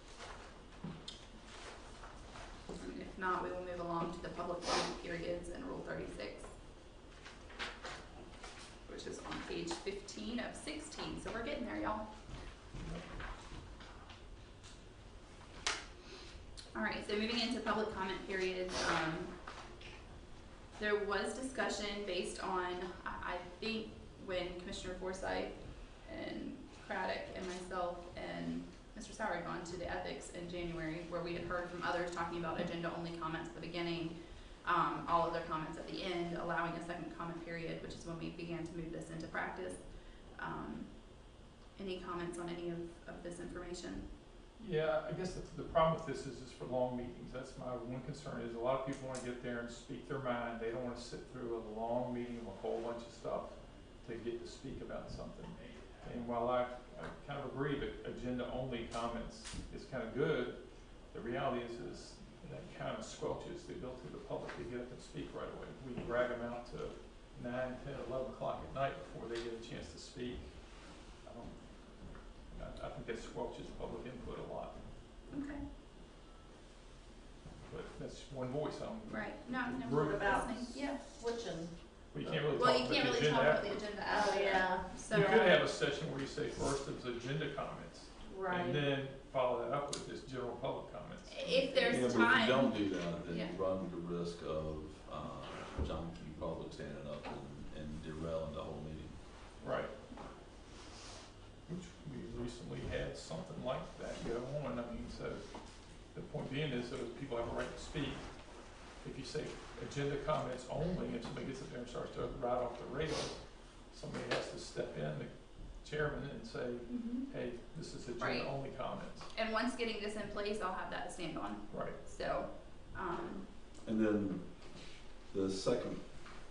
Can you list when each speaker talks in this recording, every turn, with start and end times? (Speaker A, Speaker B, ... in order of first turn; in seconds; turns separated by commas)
Speaker A: 2.8-6.5, Speaker A: 8.9-12.1, Speaker A: 16.7-19.3, Speaker A: 20.8-44.1, Speaker B: 44.6-70.6, Speaker B: 71.2-71.6, Speaker B: 72.5-74.8, Speaker A: 75.3-75.6, Speaker B: 77.7-80.4, Speaker A: 79.1-81.0, Speaker C: 79.9-82.4, Speaker B: 82.1-83.8, Speaker A: 82.5-85.5, Speaker C: 84.1-85.3, Speaker B: 85.1-91.8, Speaker C: 88.2-88.8, Speaker A: 91.3-93.6, Speaker D: 91.9-99.2, Speaker B: 99.6-99.9, Speaker B: 101.7-105.4, Speaker B: 106.1-108.4, Speaker B: 109.0-119.3, Speaker A: 116.9-117.3, Speaker A: 118.2-118.5, Speaker A: 119.3-123.5, Speaker B: 121.7-122.0, Speaker D: 123.8-124.5, Speaker D: 125.3-126.0